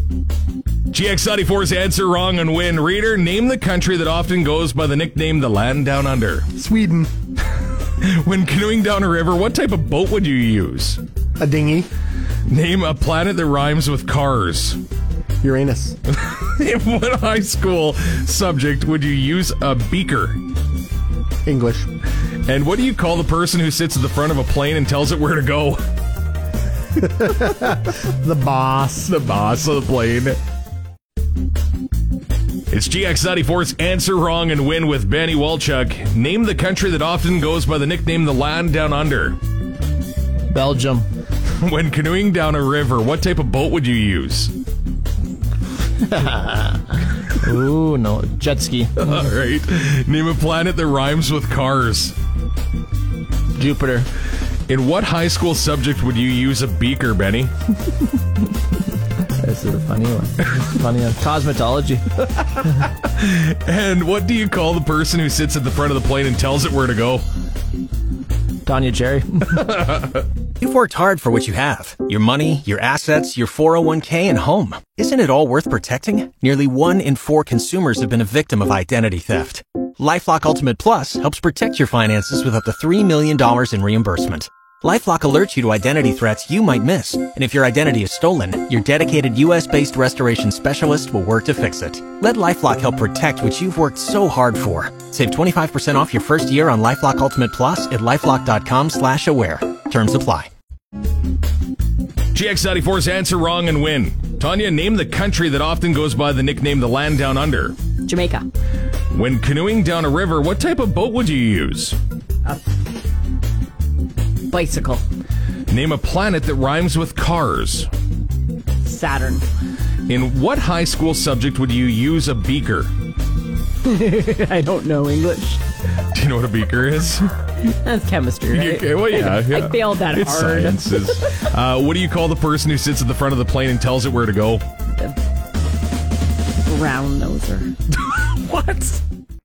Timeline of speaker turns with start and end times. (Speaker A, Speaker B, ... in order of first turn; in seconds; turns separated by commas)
Speaker A: 0.9-6.5, Speaker B: 6.6-7.1, Speaker A: 8.0-11.0, Speaker B: 11.4-11.9, Speaker A: 12.5-14.8, Speaker B: 15.4-15.9, Speaker A: 16.1-20.4, Speaker B: 21.5-21.9, Speaker A: 22.5-25.8, Speaker B: 28.2-29.1, Speaker A: 29.1-30.4, Speaker A: 32.7-39.4, Speaker C: 40.5-41.1, Speaker A: 41.6-44.5, Speaker C: 46.1-46.8, Speaker C: 47.4-48.9, Speaker A: 49.0-52.2, Speaker C: 53.5-54.1, Speaker A: 54.7-57.5, Speaker C: 59.4-62.0, Speaker A: 63.0-67.2, Speaker C: 68.7-69.5, Speaker A: 69.6-70.2, Speaker D: 70.6-100.5, Speaker A: 102.3-107.8, Speaker E: 108.0-108.5, Speaker A: 109.1-112.0, Speaker E: 114.5-115.0, Speaker A: 115.7-117.9, Speaker E: 118.8-119.5, Speaker A: 120.1-122.9, Speaker E: 123.8-125.6, Speaker A: 126.1-127.3, Speaker E: 127.6-130.9, Speaker A: 128.5-134.6, Speaker E: 136.6-137.7, Speaker A: 138.5-138.9